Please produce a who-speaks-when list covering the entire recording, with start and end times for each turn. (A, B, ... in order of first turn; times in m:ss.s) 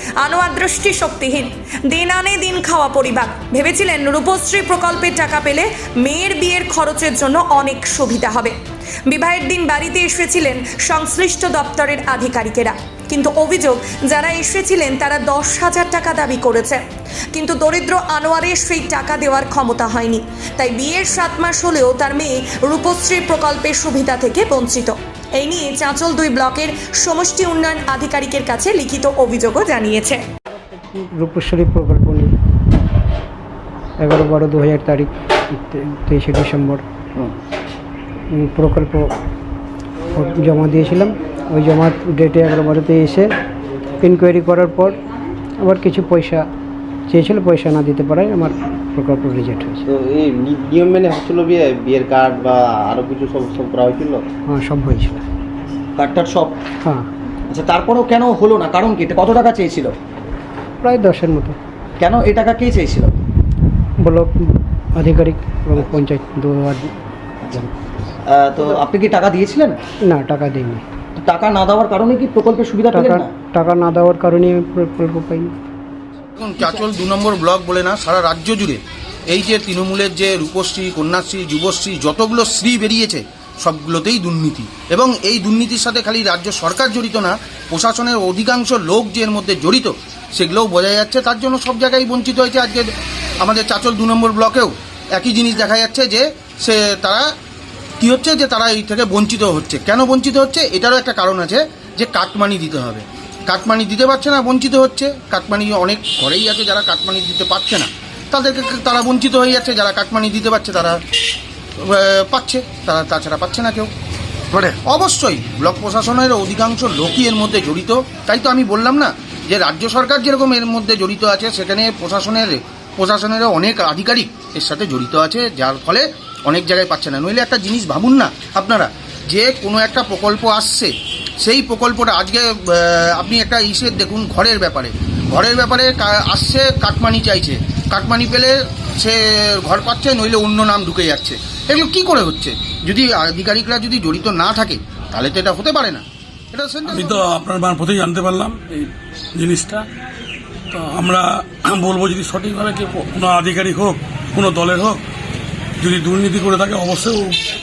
0:00.2-0:08.5 A
0:09.0-0:16.8 A
0:17.3-0:30.2 A
0:30.9-0:32.3 B
0:34.0-0:36.8 B
0:38.4-0:39.1 B
0:40.1-0:43.3 B
0:44.0-0:45.0 B
0:45.6-0:46.4 B
0:47.1-0:49.8 B
0:49.8-0:54.2 C
0:54.5-0:55.2 B
0:56.0-0:56.6 D
0:57.5-0:59.9 D
1:00.8-1:01.6 B
1:02.0-1:03.1 D
1:05.0-1:06.9 B
1:08.3-1:09.8 D
1:10.1-1:10.8 B
1:11.2-1:13.3 D
1:12.9-1:15.5 B
1:16.4-1:32.9 E
1:33.4-1:37.2 E
1:38.0-1:51.0 E
1:51.8-1:53.9 E
1:54.5-2:27.2 E
2:26.9-2:29.8 F
2:30.7-2:35.0 F
2:35.8-2:37.3 F